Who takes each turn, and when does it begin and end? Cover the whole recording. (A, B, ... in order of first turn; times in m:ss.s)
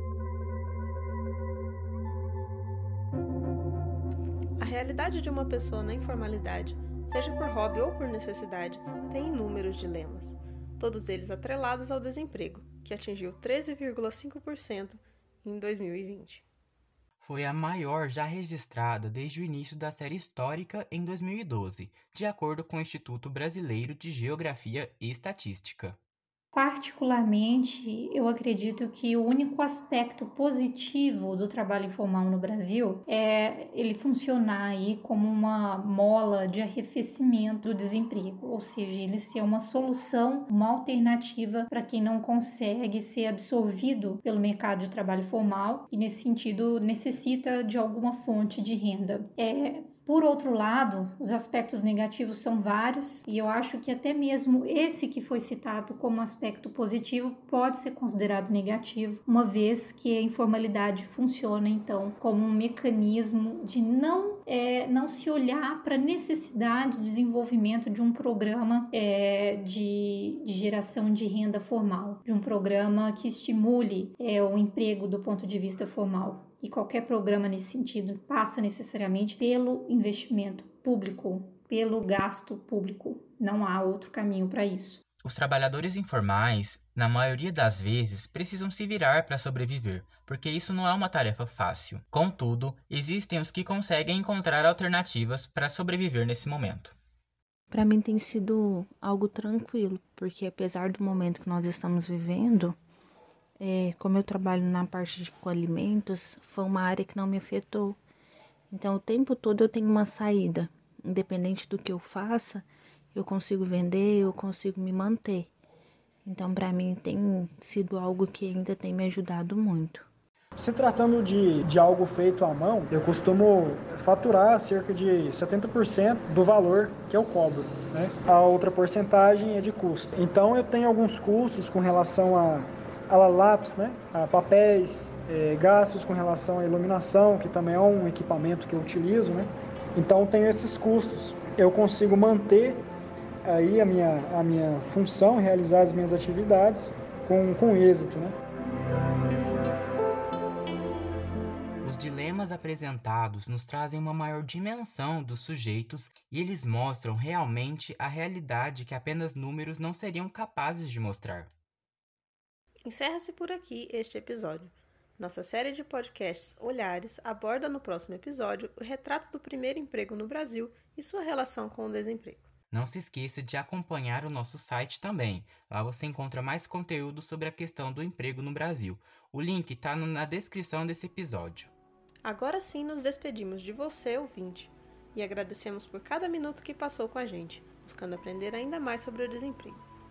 0:04.6-0:16.4 A
0:17.2-0:26.0 B
0:26.5-1:25.0 C
1:25.2-1:37.0 B
1:37.7-1:42.8 D
1:43.6-1:48.0 D
1:48.7-1:55.5 D
1:56.2-2:00.1 D
2:00.6-2:22.8 E
2:23.4-2:28.4 E
2:31.8-2:41.5 B
2:42.8-2:52.5 A
2:52.7-3:01.7 B
3:02.2-3:09.9 A